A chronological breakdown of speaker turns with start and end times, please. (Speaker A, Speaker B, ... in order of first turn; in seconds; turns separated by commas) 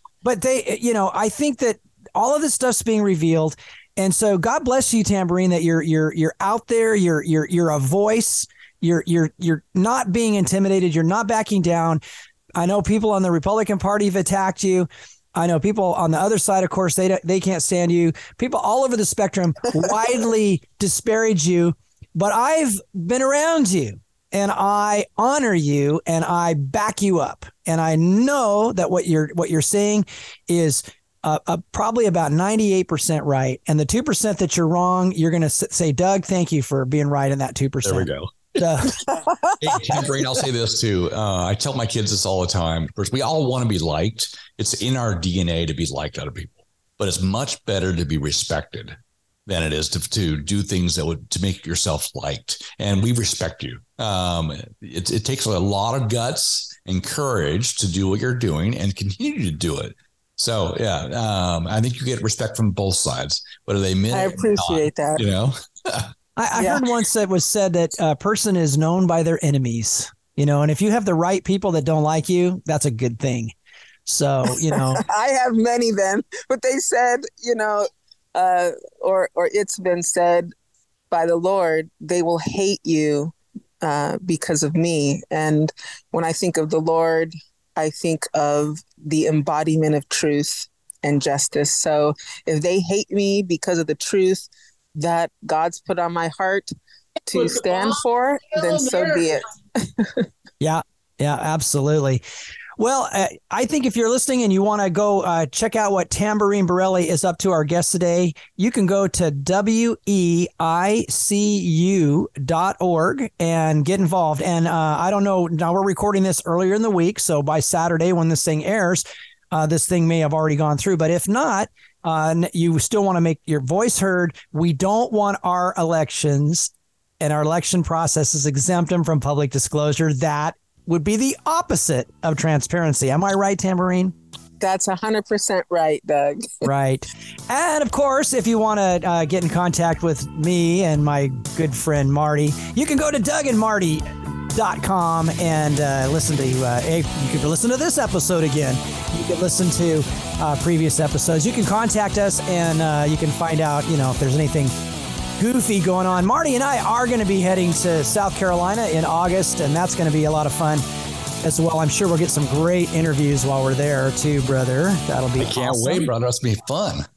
Speaker A: 0.2-12.0, Speaker A: 12.6-39.0, Speaker B: 37.8-38.9, Speaker C: 39.1-39.8, Speaker B: 39.6-66.1, Speaker C: 64.1-65.2, Speaker A: 66.4-73.5, Speaker C: 66.5-66.8, Speaker A: 74.0-75.0, Speaker C: 74.5-80.5, Speaker C: 81.1-96.7, Speaker C: 97.2-100.3, Speaker A: 100.6-102.2, Speaker A: 102.8-134.1, Speaker C: 134.6-136.7, Speaker A: 136.6-154.7, Speaker A: 155.4-160.8, Speaker A: 161.4-166.1, Speaker B: 165.4-167.1